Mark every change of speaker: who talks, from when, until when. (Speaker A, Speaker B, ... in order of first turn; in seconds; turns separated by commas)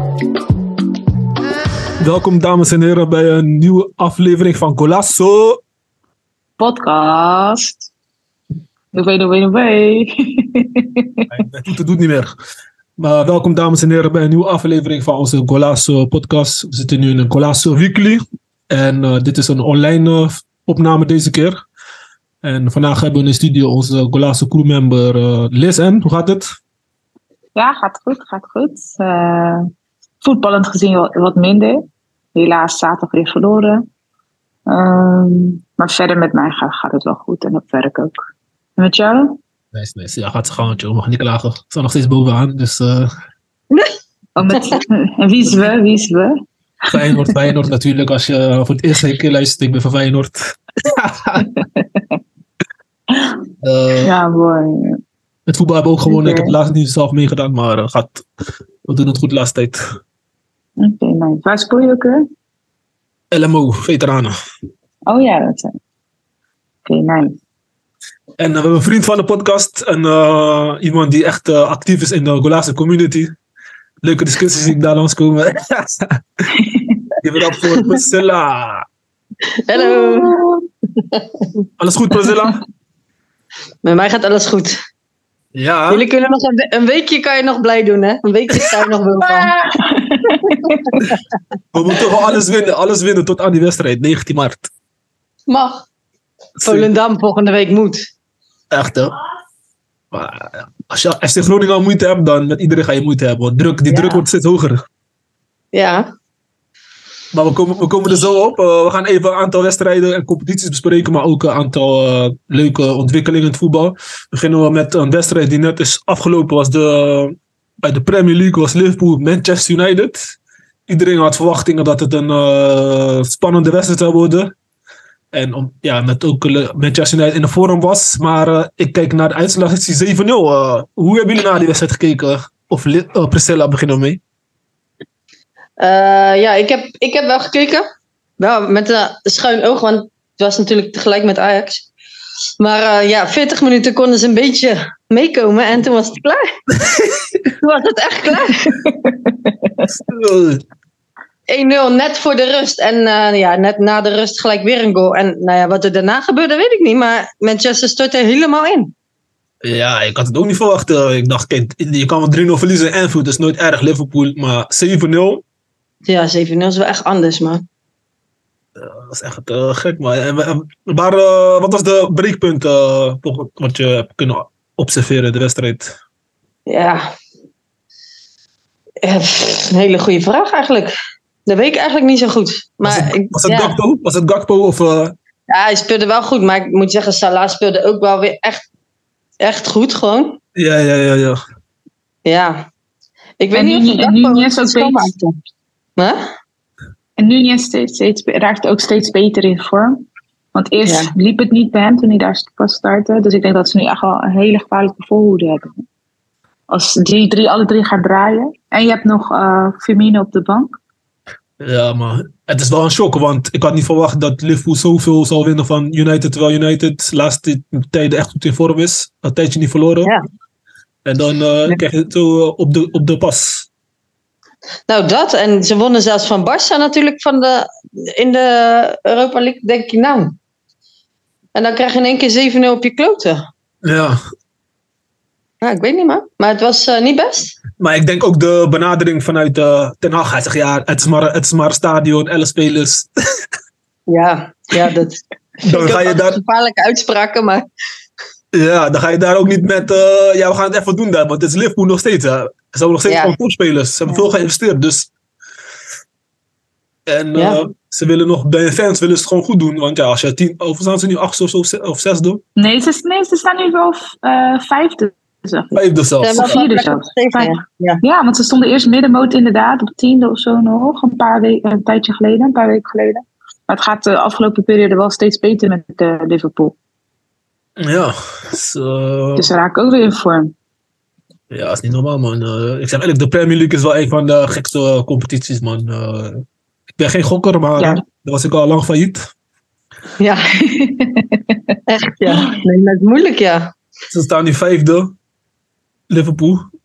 Speaker A: 2.0-5.6, Speaker B: 6.6-7.9, Speaker B: 8.9-11.3, Speaker A: 11.3-12.3, Speaker A: 13.0-21.6, Speaker A: 22.4-26.5, Speaker B: 27.6-29.7, Speaker B: 30.2-33.8, Speaker B: 34.7-38.2, Speaker B: 38.8-39.4, Speaker A: 39.7-43.1, Speaker B: 44.4-47.3, Speaker C: 44.5-44.8, Speaker A: 46.9-51.5, Speaker B: 51.4-52.2, Speaker B: 53.1-53.4, Speaker A: 53.6-54.1, Speaker B: 54.0-55.0, Speaker A: 55.5-58.2, Speaker B: 56.1-56.5, Speaker A: 58.8-59.8, Speaker B: 60.8-62.2, Speaker A: 63.3-64.3, Speaker B: 65.1-65.8, Speaker B: 66.9-67.4, Speaker A: 68.4-73.3, Speaker A: 74.0-76.4, Speaker B: 76.5-77.1, Speaker A: 77.2-78.8, Speaker C: 79.6-80.4, Speaker B: 79.8-80.3, Speaker C: 81.0-81.5, Speaker A: 81.8-82.6, Speaker C: 83.8-84.8, Speaker A: 85.5-86.0, Speaker C: 85.9-89.5, Speaker B: 89.7-91.1, Speaker C: 90.4-90.7, Speaker A: 91.7-94.7, Speaker C: 95.5-95.8, Speaker A: 96.6-96.9, Speaker C: 96.6-98.0, Speaker A: 98.7-99.1, Speaker A: 100.1-104.8, Speaker C: 103.9-104.2, Speaker C: 105.7-106.1, Speaker A: 107.3-120.3, Speaker A: 120.9-124.5, Speaker A: 125.3-134.2, Speaker C: 135.8-137.8, Speaker C: 138.4-141.8, Speaker C: 142.6-146.5, Speaker A: 146.8-147.2, Speaker C: 147.6-148.8, Speaker B: 148.4-149.8, Speaker A: 149.9-150.6, Speaker C: 151.5-158.9, Speaker A: 159.6-165.4, Speaker C: 166.1-167.6, Speaker A: 168.8-175.9, Speaker C: 176.7-177.1, Speaker C: 179.0-180.9, Speaker C: 181.5-183.7, Speaker A: 182.8-185.2, Speaker C: 185.5-188.7, Speaker C: 189.4-190.4, Speaker A: 190.6-191.4, Speaker C: 192.2-192.7, Speaker C: 193.4-195.3, Speaker B: 193.5-195.1, Speaker B: 197.2-205.8, Speaker C: 200.8-201.1, Speaker B: 206.7-210.7, Speaker A: 211.6-220.1, Speaker A: 221.0-223.7, Speaker C: 224.9-230.3, Speaker C: 231.5-233.5, Speaker A: 233.8-234.2, Speaker C: 235.6-237.6, Speaker A: 237.8-243.4, Speaker C: 244.1-247.7, Speaker A: 245.7-246.4, Speaker A: 248.5-255.1, Speaker C: 253.1-253.3, Speaker A: 257.1-262.4, Speaker C: 257.4-257.6, Speaker B: 262.6-276.8, Speaker A: 265.8-266.6, Speaker C: 266.2-268.0, Speaker A: 277.8-279.5, Speaker B: 279.4-280.5, Speaker A: 281.5-286.4, Speaker A: 287.0-289.3, Speaker C: 290.2-290.6, Speaker B: 290.5-291.8, Speaker C: 291.9-293.7, Speaker B: 292.3-292.6, Speaker A: 294.1-295.1, Speaker A: 296.1-296.7